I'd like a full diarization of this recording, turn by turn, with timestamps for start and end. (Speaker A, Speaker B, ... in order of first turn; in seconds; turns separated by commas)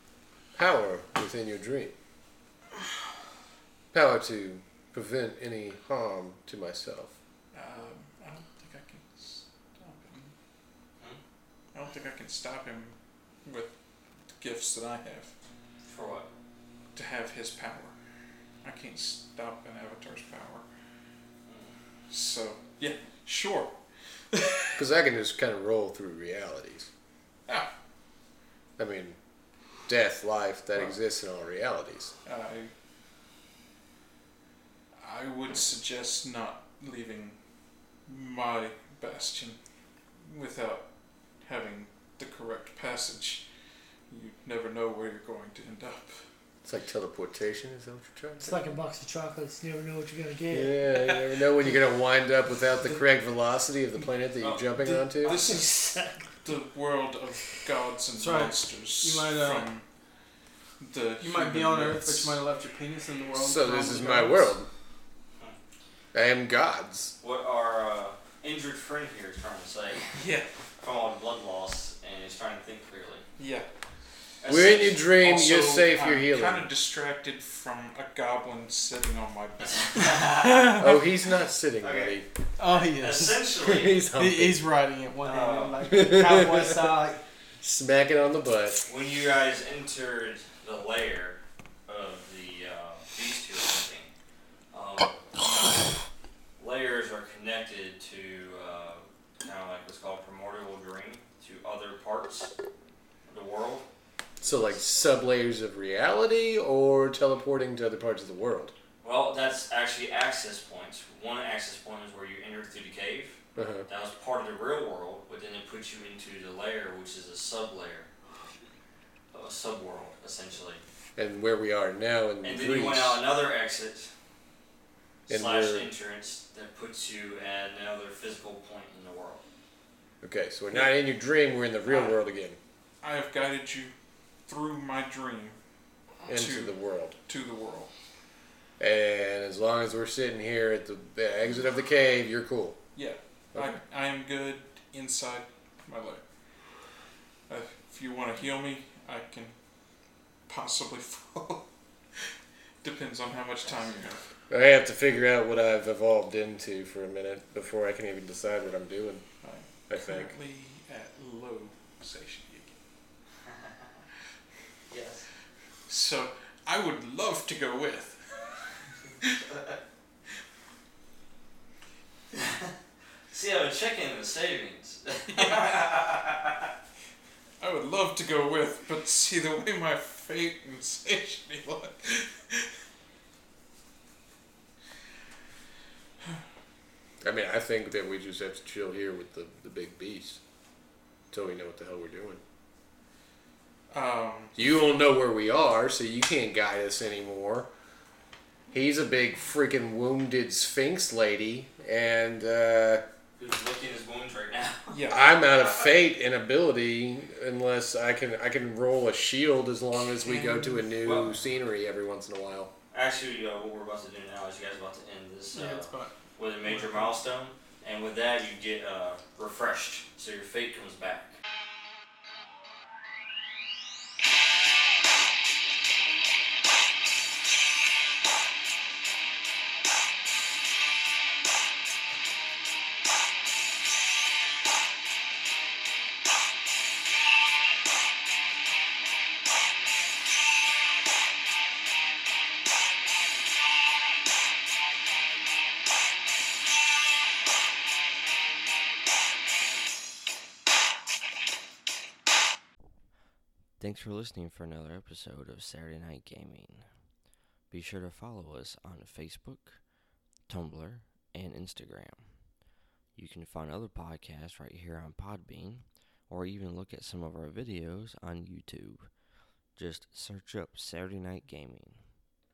Speaker A: 0.5-1.9, Speaker A: 3.9-7.1, Speaker B: 7.5-10.3, Speaker B: 11.7-13.7, Speaker B: 14.4-15.3, Speaker C: 15.8-16.3, Speaker B: 16.9-17.9, Speaker B: 18.6-20.6, Speaker C: 21.4-21.7, Speaker B: 22.1-23.7, Speaker B: 24.3-24.8, Speaker A: 24.8-26.9, Speaker A: 28.8-29.2, Speaker A: 29.9-32.1, Speaker B: 32.2-32.7, Speaker B: 35.0-37.4, Speaker B: 38.1-39.6, Speaker B: 40.2-40.8, Speaker B: 41.4-43.4, Speaker B: 44.1-46.1, Speaker A: 46.6-48.7, Speaker D: 48.4-50.9, Speaker A: 50.5-55.5, Speaker C: 54.4-54.7, Speaker B: 55.1-59.8, Speaker C: 55.2-56.0, Speaker E: 58.1-59.7, Speaker B: 60.8-62.4, Speaker E: 61.2-64.5, Speaker A: 63.3-64.7, Speaker A: 66.1-67.1, Speaker C: 67.2-70.1, Speaker B: 70.2-70.5, Speaker C: 70.8-73.2, Speaker B: 73.4-73.7, Speaker C: 74.4-75.1, Speaker A: 74.5-76.7, Speaker B: 75.2-80.2, Speaker C: 79.7-80.9, Speaker E: 80.4-81.0, Speaker A: 80.8-82.2, Speaker C: 81.8-84.0, Speaker E: 82.6-83.5, Speaker A: 83.6-84.7, Speaker E: 84.1-87.2, Speaker C: 85.2-85.8, Speaker A: 85.8-87.0, Speaker A: 87.6-88.8, Speaker C: 88.8-94.1, Speaker C: 94.7-95.5, Speaker C: 96.6-102.5, Speaker C: 103.3-103.8, Speaker A: 104.4-108.7, Speaker C: 109.0-118.1, Speaker A: 113.5-113.9, Speaker C: 119.3-120.8, Speaker A: 121.2-123.2, Speaker C: 122.4-124.1, Speaker C: 125.3-129.4, Speaker A: 125.3-125.9, Speaker A: 130.2-132.6, Speaker C: 131.9-132.2, Speaker B: 133.0-133.9, Speaker B: 134.5-135.6, Speaker B: 136.2-136.7, Speaker A: 136.3-137.1, Speaker B: 137.3-137.9, Speaker A: 138.8-142.8, Speaker B: 142.9-146.2, Speaker B: 147.5-149.5, Speaker B: 150.5-151.7, Speaker B: 152.8-154.2, Speaker A: 154.5-159.2, Speaker B: 159.4-162.8, Speaker A: 159.9-160.3, Speaker C: 164.9-165.2, Speaker B: 165.9-168.7, Speaker C: 172.3-172.7, Speaker C: 173.3-176.7, Speaker B: 175.3-175.9, Speaker B: 177.6-182.7, Speaker A: 187.2-190.4, Speaker A: 191.3-192.4, Speaker B: 193.9-194.5, Speaker A: 194.6-197.7, Speaker A: 198.7-203.0, Speaker C: 203.4-205.0, Speaker B: 204.9-205.3, Speaker A: 205.1-212.7, Speaker B: 210.3-210.9, Speaker C: 211.0-211.3, Speaker C: 212.9-221.3, Speaker E: 215.5-216.1, Speaker B: 216.7-217.1, Speaker F: 254.0-254.3, Speaker F: 257.7-258.9, Speaker F: 260.5-261.4, Speaker F: 270.5-271.4